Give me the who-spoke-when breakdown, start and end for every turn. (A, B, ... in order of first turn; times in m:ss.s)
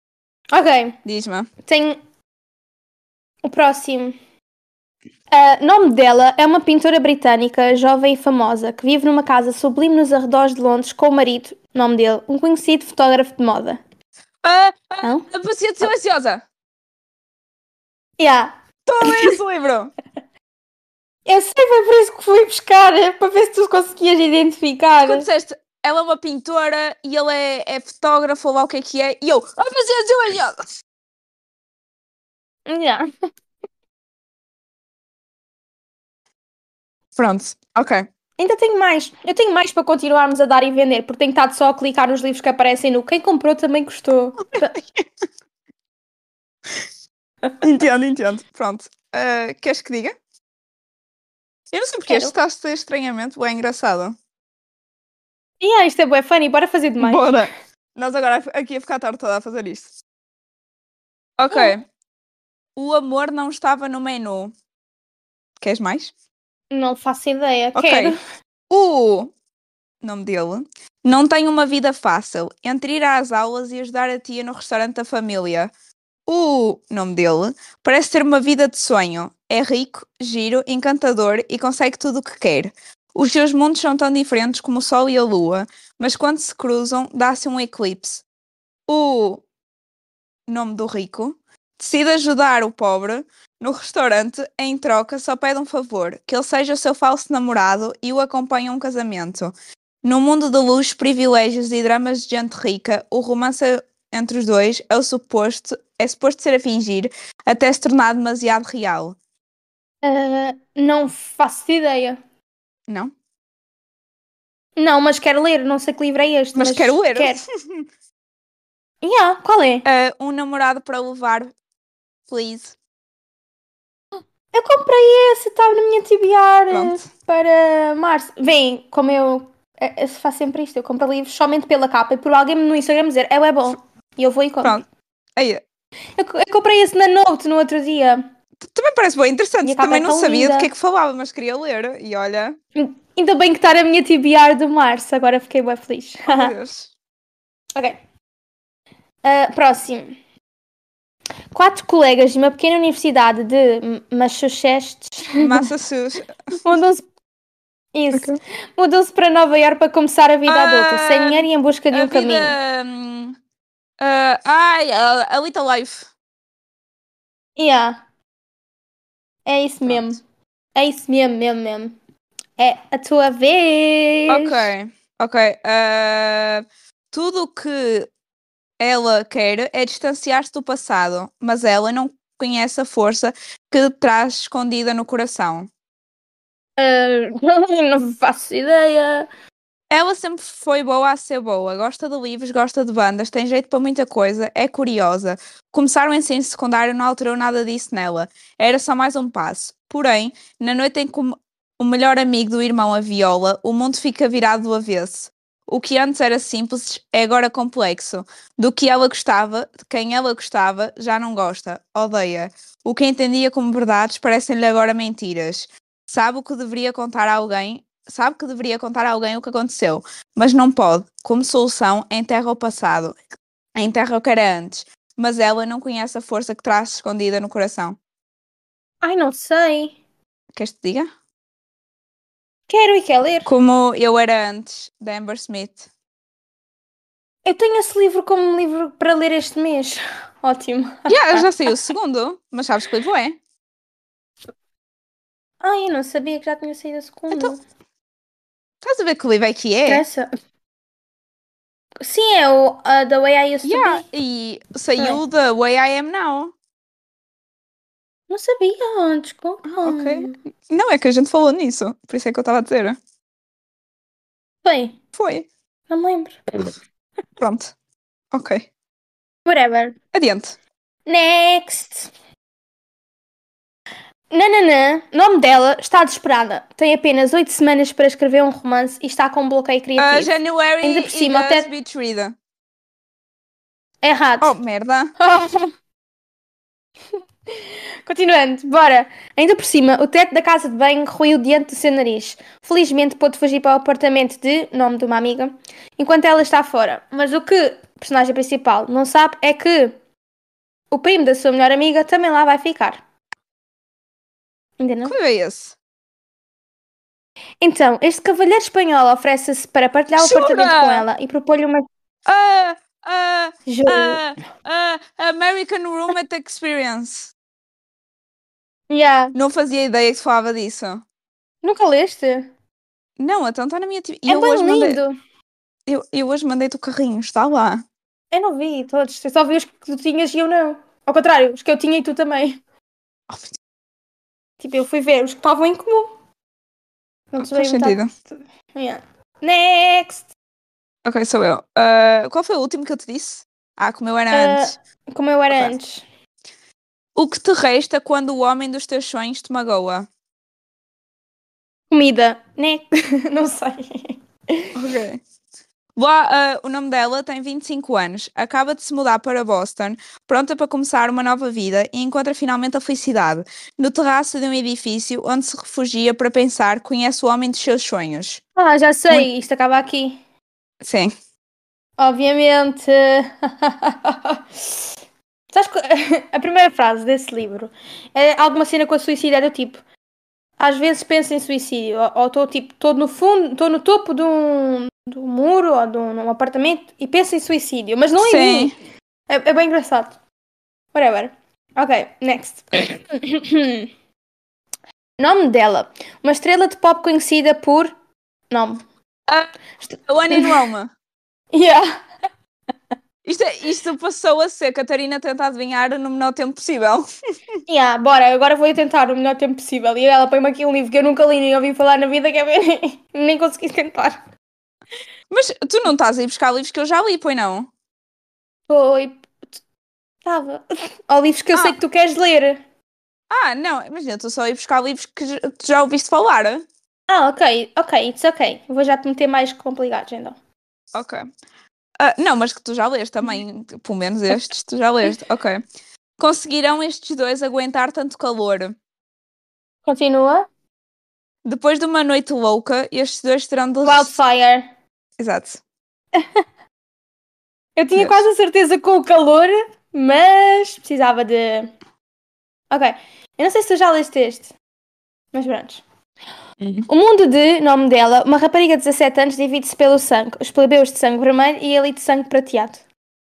0:00.5-0:01.0 A
0:01.0-0:01.5 B
0:01.6-0:02.0 A
0:03.4-0:04.2 A
0:05.3-0:13.8 A
0:14.4-0:16.4 B
0:15.0-0:15.3 A
0:18.2-0:19.4 A
0:18.9-0:19.9 B
0:21.3-0:25.3 A
0:25.0-0:30.6 B
0:32.7-0:33.0 A
0:37.2-0:38.1 B
0:38.4-0:44.8 A
0:47.6-0:50.1 B
0:51.7-0:54.2 B
0:52.1-0:52.4 A
0:55.6-0:57.4 A
0:57.0-0:59.9 B
1:01.4-1:01.8 B
1:02.8-1:04.5 B
1:05.6-1:06.1 B
1:06.7-1:08.2 A
1:07.8-1:08.2 B
1:08.7-1:09.3 B
1:10.0-1:15.7 B
1:16.3-1:28.2 B
1:28.9-1:29.4 B
1:30.5-1:49.2 B
1:50.0-1:52.2 A
1:54.8-1:57.4 A
1:56.6-1:57.9 B
1:59.0-1:59.9 A
1:59.8-2:01.5 B
2:02.3-2:02.7 B
2:04.5-2:14.8 A
2:06.7-2:07.1 B
2:15.4-2:15.6 B
2:16.2-2:18.2 A
2:18.6-2:22.6 B
2:19.6-2:20.7 A
2:22.8-2:26.5 A
2:26.3-2:26.9 B
2:29.2-2:30.2 A
2:31.5-2:35.7 A
2:35.4-2:36.4 B
2:36.6-2:37.0 A
2:37.9-2:42.6 A
2:38.1-2:38.4 B
2:40.5-2:43.4 B
2:44.0-2:46.1 B
2:47.6-2:48.0 A
2:49.4-2:50.2 A
2:49.8-2:50.1 B
2:50.8-2:52.0 A
2:52.6-2:54.7 A
2:54.3-2:58.1 B
2:58.8-3:05.7 B
3:06.8-3:09.3 A
3:09.9-3:43.2 B
3:43.8-3:48.0 B
3:49.0-3:50.0 A
3:50.5-3:51.1 B
3:52.7-3:53.5 A
3:53.4-3:55.9 B
3:57.4-4:01.7 A
4:01.1-4:03.4 B
4:05.6-4:07.6 A
4:08.8-4:10.0 B
4:09.9-4:10.3 A
4:12.0-4:14.1 A
4:13.6-4:16.5 B
4:18.3-4:20.4 A
4:19.7-4:23.0 B
4:24.6-4:25.0 A
4:25.2-4:25.5 B
4:25.9-4:26.4 A
4:27.4-4:27.7 B
4:28.3-4:28.7 B
4:29.5-4:30.0 A
4:30.1-4:30.6 B
4:31.1-4:32.1 A
4:34.3-4:41.7 A
4:40.0-4:42.4 B
4:44.0-4:44.5 A
4:44.4-4:45.1 B
4:45.2-4:45.7 A
4:47.5-5:00.0 A
5:00.9-5:03.0 A
5:04.8-5:05.2 A
5:05.0-5:05.8 B
5:07.6-5:11.8 A
5:10.2-5:11.0 B
5:12.3-5:17.3 B
5:13.7-5:14.2 A
5:18.9-5:19.4 A
5:19.3-5:21.0 B
5:21.6-5:22.5 A
5:23.2-5:25.0 B
5:24.3-5:25.1 A
5:25.9-5:27.8 B
5:28.3-5:32.6 A
5:33.3-5:33.6 B
5:34.6-5:36.1 A
5:37.3-5:40.3 A
5:37.4-5:38.1 B
5:41.0-5:44.8 B
5:44.3-5:46.0 A
5:47.2-5:50.1 B
5:51.9-5:54.8 A
5:54.8-5:55.2 B
5:56.0-6:08.4 B
6:08.6-6:10.2 A
6:10.8-6:11.1 B
6:12.0-6:14.9 A
6:15.5-6:19.8 A
6:20.6-6:28.7 A
6:28.2-6:28.8 B
6:29.3-6:30.2 A
6:30.9-6:33.9 A
6:35.2-6:37.9 A
6:38.5-6:38.8 A
6:39.8-6:40.6 A
6:40.1-6:40.9 B
6:41.5-6:41.9 A
6:43.2-6:47.0 B
6:47.7-6:54.2 A
6:55.3-6:57.7 B
6:58.7-6:59.3 A
7:00.2-7:02.6 A
7:03.3-7:06.6 B
7:07.1-7:10.4 A
7:10.9-7:11.2 B
7:12.0-7:15.6 B
7:16.2-7:18.8 B
7:19.8-7:20.5 A
7:21.4-7:24.1 B
7:23.8-7:24.7 A
7:25.2-7:25.6 B
7:27.8-7:31.7 A
7:28.0-7:28.3 B
7:32.7-7:34.5 A
7:35.3-7:35.8 A
7:36.6-7:36.9 B
7:36.9-7:42.8 A